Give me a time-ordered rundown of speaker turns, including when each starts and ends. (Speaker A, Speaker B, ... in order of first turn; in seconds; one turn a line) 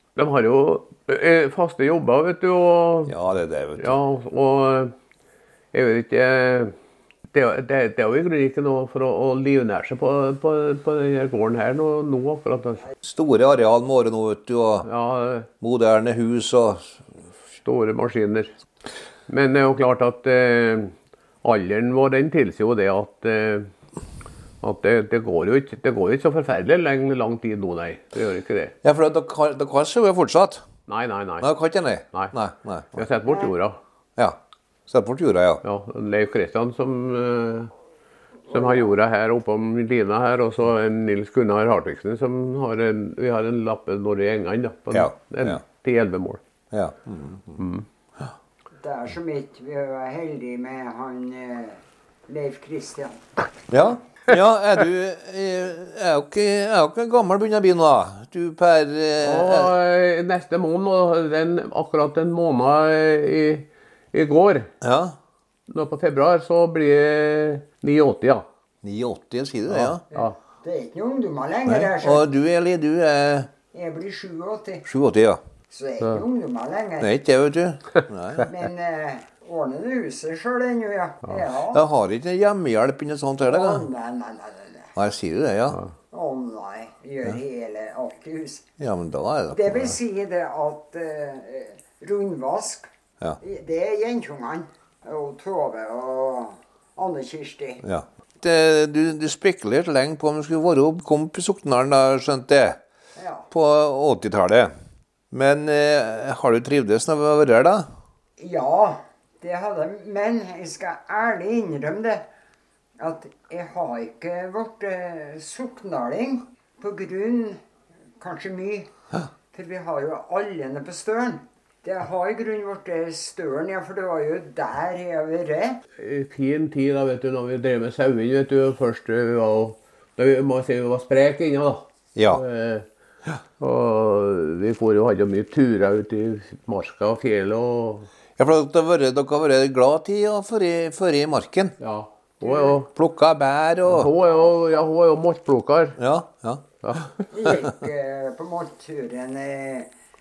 Speaker A: 0.1-3.1
Speaker B: 3.1-4.0
Speaker A: 3.8-4.9
Speaker A: 5.7-6.8
Speaker A: 7.3-12.8
Speaker B: 13.0-14.9
Speaker A: 14.8-15.5
Speaker B: 15.6-17.0
Speaker A: 17.6-18.5
Speaker A: 19.3-23.7
Speaker A: 24.6-28.8
Speaker B: 28.8-30.6
Speaker A: 30.9-31.5
Speaker B: 31.4-33.1
Speaker A: 32.9-33.8
Speaker B: 34.2-35.6
Speaker A: 35.6-37.7
Speaker C: 38.5-38.9
Speaker A: 38.5-46.4
Speaker B: 44.9-45.6
Speaker B: 46.7-47.6
Speaker A: 47.6-47.9
Speaker C: 48.8-53.3
Speaker B: 53.7-59.7
Speaker A: 59.2-64.7
Speaker B: 64.8-65.2
Speaker A: 65.7-68.4
Speaker B: 68.8-70.0
Speaker A: 69.7-70.3
Speaker C: 70.1-72.3
Speaker B: 71.7-73.5
Speaker C: 73.7-74.9
Speaker B: 74.9-75.4
Speaker C: 75.7-77.1
Speaker B: 77.0-78.5
Speaker C: 78.4-81.9
Speaker B: 81.7-83.9
Speaker C: 83.4-84.9
Speaker B: 85.0-85.8
Speaker C: 86.1-88.7
Speaker B: 88.8-89.9
Speaker C: 89.5-97.8
Speaker B: 97.8-102.8
Speaker C: 103.2-103.5
Speaker B: 103.5-104.7
Speaker B: 105.3-107.9
Speaker C: 108.4-112.2
Speaker C: 113.0-117.6
Speaker C: 118.2-118.9
Speaker C: 119.5-125.8
Speaker A: 126.0-132.9
Speaker B: 132.1-132.4
Speaker A: 133.6-138.1
Speaker B: 138.4-141.8
Speaker A: 141.8-142.9
Speaker C: 142.4-142.8
Speaker B: 142.9-144.1
Speaker A: 143.8-146.0
Speaker B: 146.0-147.1
Speaker A: 146.8-147.2
Speaker C: 147.3-149.9